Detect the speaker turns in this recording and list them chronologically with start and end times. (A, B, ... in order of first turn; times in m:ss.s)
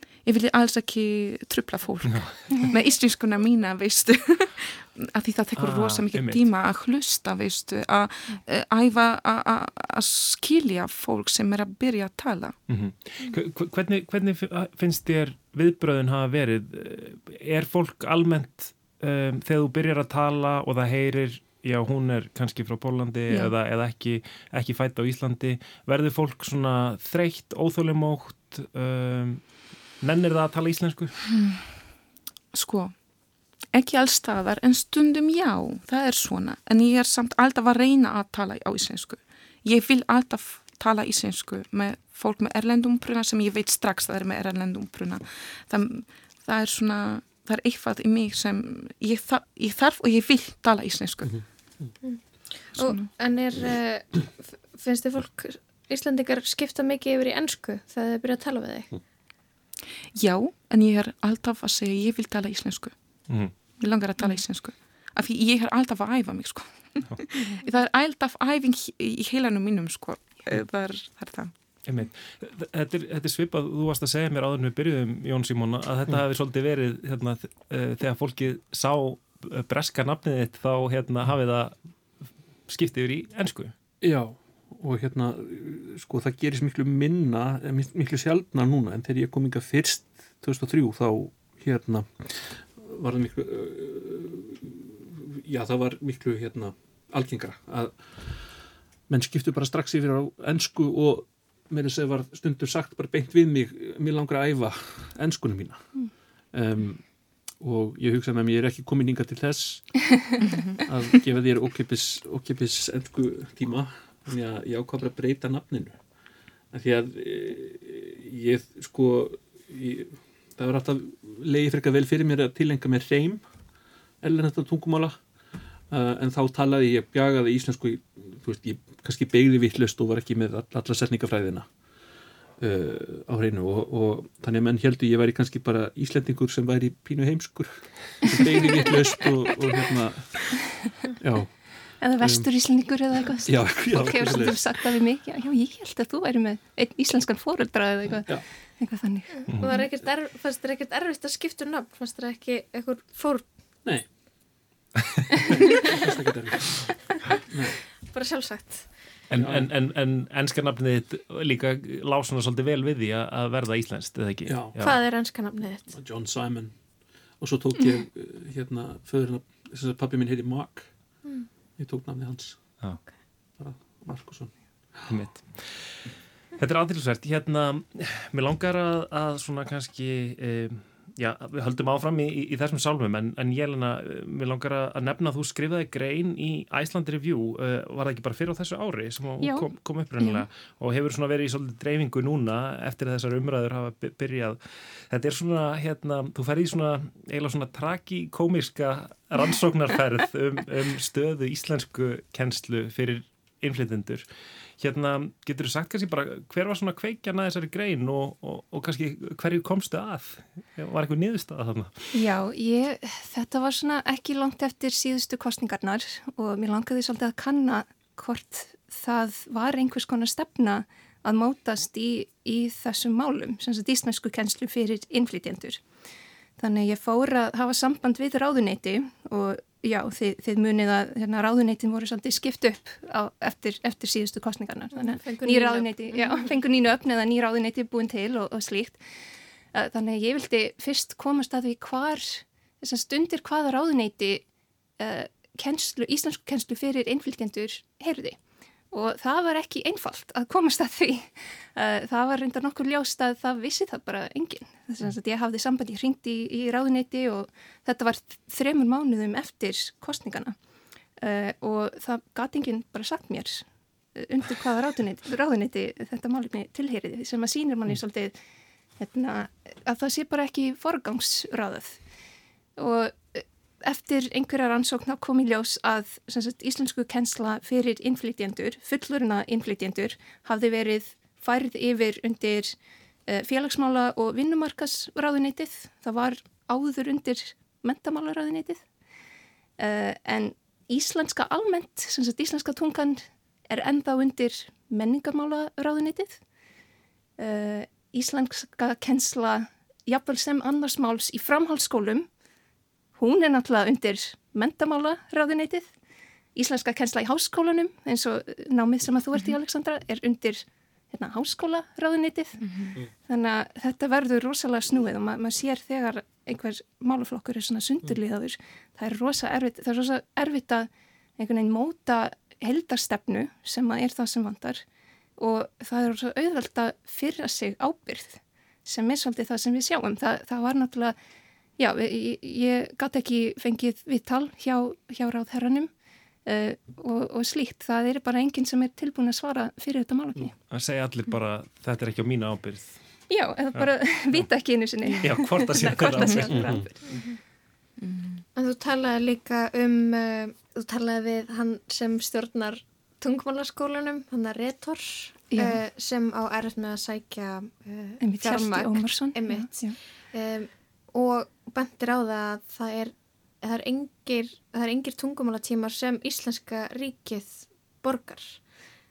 0:00.2-0:12.6 A
0:02.1-0:02.7 B
0:05.6-0:06.4 B
0:12.7-0:31.2 B
0:31.3-0:31.6 A
0:32.5-0:33.0 A
0:33.7-0:51.4 A
0:51.2-0:52.0 C
0:52.0-0:58.9 D
0:52.8-0:53.1 A
1:00.2-1:03.0 A
1:03.3-1:03.5 B
1:03.5-1:11.5 A
1:11.8-1:21.8 B
1:22.7-1:23.7 B
1:24.0-1:50.1 C
1:50.4-1:50.8 A
1:50.8-1:56.0 C
1:56.7-2:03.4 C
2:04.2-2:05.2 C
2:05.9-2:11.7 C
2:12.6-2:22.5 C
2:22.0-2:29.4 E
2:23.0-2:24.7 C
2:28.1-2:28.4 C
2:29.4-2:33.5 D
2:29.5-2:29.8 B
2:33.8-2:34.1 C
2:35.7-2:37.8 C
2:38.1-2:39.2 D
2:39.3-2:45.0 B
2:39.3-2:39.7 C
2:44.4-2:44.8 C
2:44.8-2:45.9 D
2:45.9-2:46.8 C
2:47.4-2:50.9 C
2:51.2-2:51.5 D
2:51.8-2:52.7 C
2:53.6-2:55.1 C
2:55.1-3:24.3 B
3:09.4-3:09.7 E
3:10.2-3:10.4 E
3:24.8-3:32.2 B
3:32.1-3:45.8 E
3:46.6-3:59.0 E
3:54.9-3:56.5 D
3:59.7-4:04.4 E
4:05.0-4:08.4 E
4:08.9-4:20.6 E
4:21.2-4:28.4 E
4:29.0-4:32.0 E
4:32.8-4:42.8 E
4:43.3-4:48.8 E
4:49.8-4:56.4 E
4:57.4-5:02.3 E
5:03.2-5:05.9 E
5:06.6-5:24.8 E
5:25.4-5:31.2 E
5:31.8-5:35.9 E
5:36.5-5:40.5 E
5:40.7-5:43.0 B
5:43.3-5:47.1 E
5:43.8-5:44.5 B
5:45.2-5:46.8 B
5:46.4-5:46.9 C
5:47.1-5:47.4 D
5:48.0-5:48.4 A
5:48.6-6:08.6 D
5:55.5-5:55.8 E
5:58.2-6:00.0 E